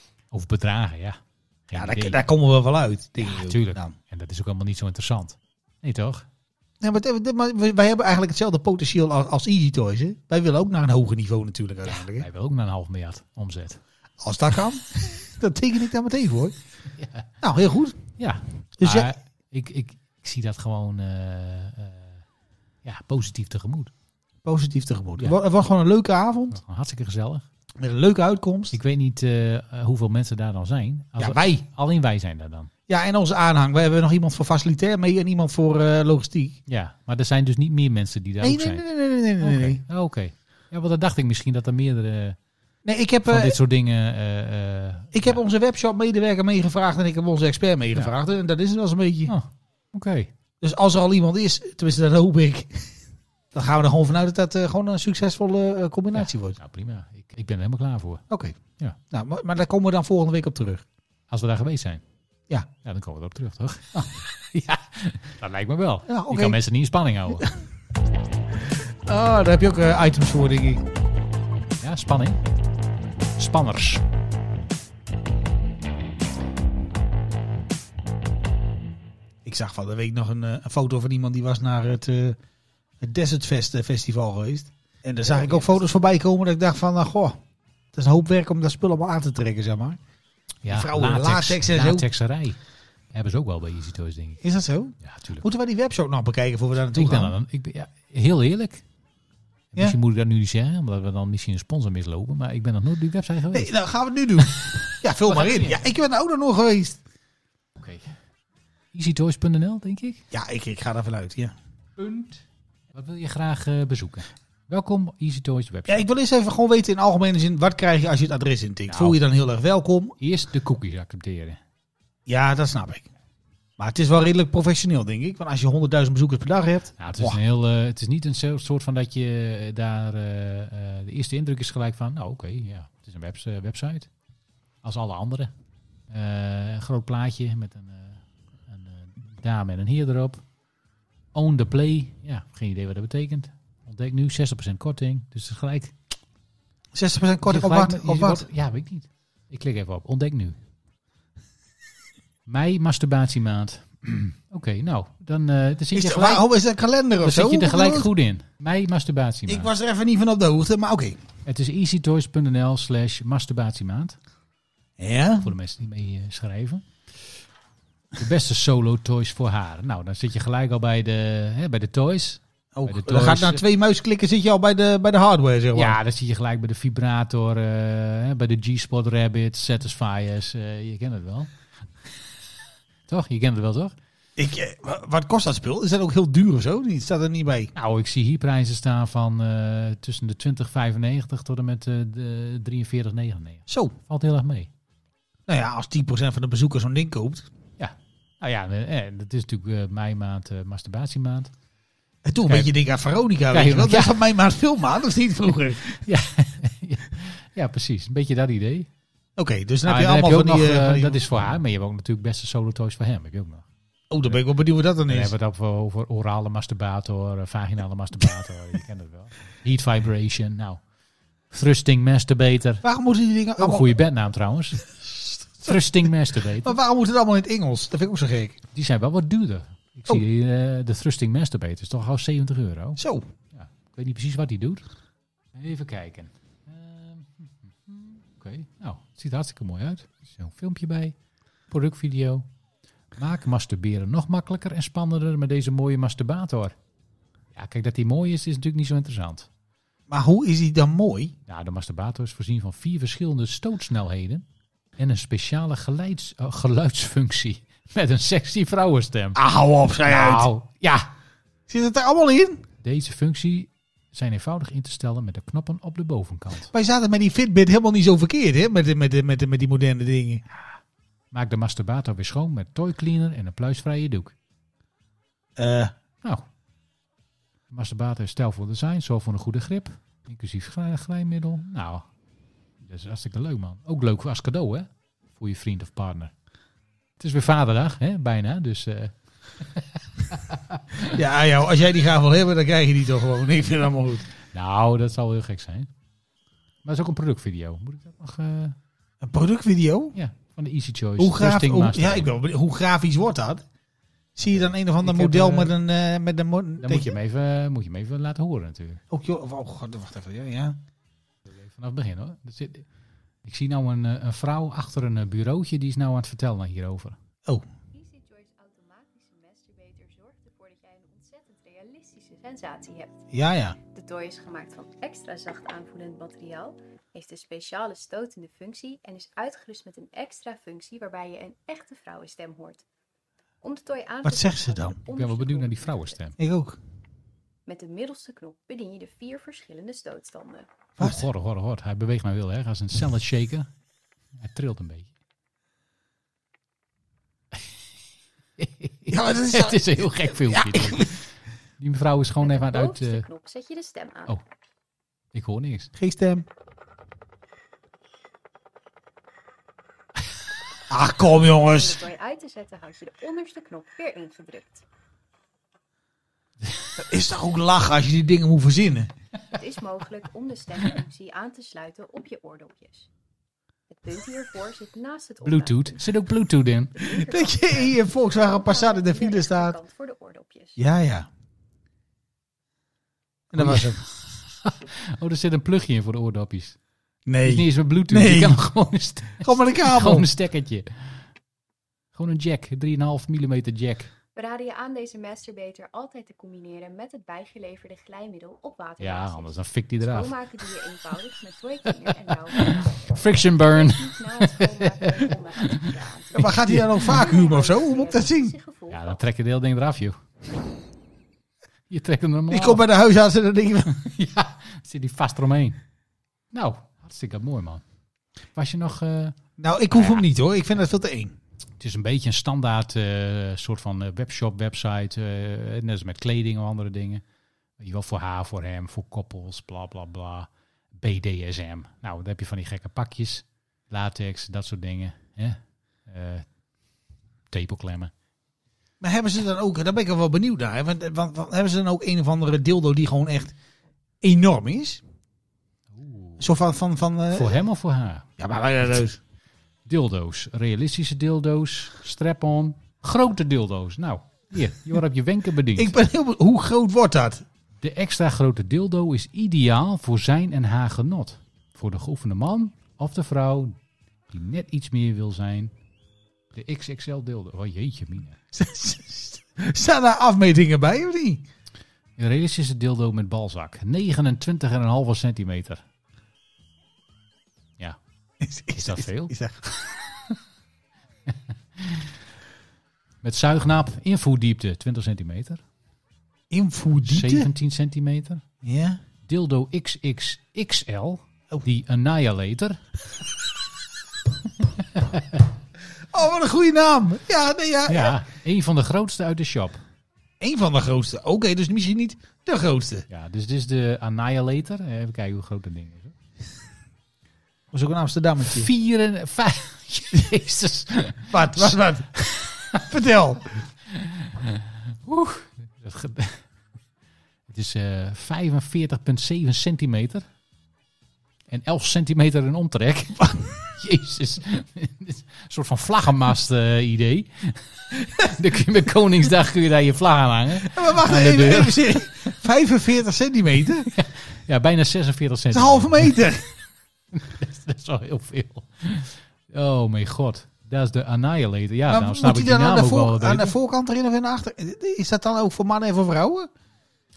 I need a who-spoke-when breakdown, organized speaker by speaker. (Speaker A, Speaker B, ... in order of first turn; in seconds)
Speaker A: 0.3-2.2, 3.2-6.2, 11.8-13.8, 16.9-17.2, 18.2-22.2, 22.8-23.9, 26.5-27.4, 28.7-32.7, 36.7-38.8, 39.4-42.4, 43.2-45.4, 49.3-50.3, 56.1-58.2, 61.3-62.0, 62.8-67.5, 71.8-72.4, 73.4-74.0, 85.2-85.8, 90.6-92.6, 93.1-94.4, 95.0-95.4, 96.9-98.8, 99.7-103.7, 104.4-104.7, 105.3-105.8, 107.8-108.1, 108.9-110.2, 112.0-116.1, 118.9-119.2, 120.2-121.6, 127.0-134.1, 134.8-135.5, 136.1-140.4, 141.3-145.9, 147.4-150.6, 152.4-156.4, 157.2-159.7, 161.4-164.2, 165.4-166.8, 168.2-173.6, 175.7-181.5, 183.1-183.9, 187.7-194.7, 197.8-201.5, 202.4-202.7, 203.5-204.2, 206.0-208.9, 209.8-213.7, 215.1-220.8, 221.5-222.8, 223.6-224.8, 225.6-226.8, 228.7-233.0, 233.5-234.8, 235.5-241.1, 241.7-242.4, 243.2-246.8, 247.5-249.5, 251.5-254.4, 255.0-259.4, 260.0-261.1, 262.8-266.7, 271.3-274.3, 277.7-282.1, 282.8-286.3, 287.2-291.1, 294.5-295.9, 296.8-298.8, 300.1-302.3, 304.5-305.7, 306.8-309.0, 311.5-312.9, 313.4-317.1, 335.1-336.4, 341.0-343.7, 344.4-345.1, 348.6-351.2, 351.8-353.2, 355.3-355.9, 375.4-377.0, 383.5-386.8, 387.4-391.3, 392.1-394.1, 399.0-400.3, 402.3-407.1, 408.9-410.2, 411.9-412.8, 413.9-415.8, 416.5-417.8, 418.5-419.4, 419.9-420.2, 421.8-427.2, 427.8-436.5, 437.5-438.1, 445.9-446.4, 447.3-448.3, 449.9-455.9, 457.8-463.7, 464.3-465.7, 466.5-468.4, 472.2-475.8, 478.7-479.3, 481.3-482.1, 483.2-485.6, 487.0-488.4, 489.3-492.8, 494.8-495.4, 497.9-499.8, 503.1-506.1, 508.5-512.8, 513.9-516.4, 517.5-520.2, 521.5-532.0, 533.9-536.3, 537.1-543.5
Speaker B: 1.7-3.9, 6.8-12.2, 14.2-16.5, 17.4-18.0, 18.8-19.1, 24.4-26.6, 27.8-28.8, 31.2-31.6, 32.9-36.6, 38.4-39.8, 42.8-43.5, 45.1-49.3, 50.6-52.9, 53.5-56.6, 58.3-58.6, 59.1-60.8, 66.1-66.6, 68.6-70.8, 79.4-82.4, 83.0-87.4, 87.9-90.0, 90.7-92.0, 94.4-97.3, 103.5-107.0, 110.3-111.5, 115.9-120.1, 122.3-123.1, 123.8-127.4, 146.9-148.4, 155.9-158.1, 159.5-161.2, 165.0-165.5, 172.7-176.0, 184.4-187.7, 193.7-193.9, 195.5-197.5, 202.2-206.0, 209.4-211.2, 214.1-215.3, 222.8-223.9, 226.6-228.6, 233.0-233.3, 250.1-251.3, 259.4-260.5, 261.7-262.6, 266.7-270.4, 275.6-275.9, 291.1-294.3, 299.2-300.1, 301.2-303.6, 304.4-307.1, 309.1-310.8, 323.3-323.8, 334.2-335.0, 336.4-336.8, 349.1-351.1, 355.9-356.4, 360.9-362.0, 367.0-369.1, 377.0-379.8, 380.8-381.3, 383.5-384.0, 387.2-388.6, 389.4-390.3, 406.3-408.5, 412.5-414.0, 419.6-421.3, 439.0-443.5, 444.2-445.0, 446.4-447.6, 448.4-449.2, 455.8-457.4, 468.5-471.4, 478.4-480.2, 486.5-487.5, 488.6-489.0, 496.1-498.1, 500.4-503.1, 507.7-508.7, 511.3-512.2, 512.7-513.5, 530.6-533.9, 535.5-536.4, 541.9-546.5
Speaker C: 317.9-323.2, 323.9-332.8, 333.6-336.2, 337.6-340.7, 352.4-354.3, 361.6-364.8, 369.5-373.1, 373.9-376.1, 377.0-380.8, 394.4-409.2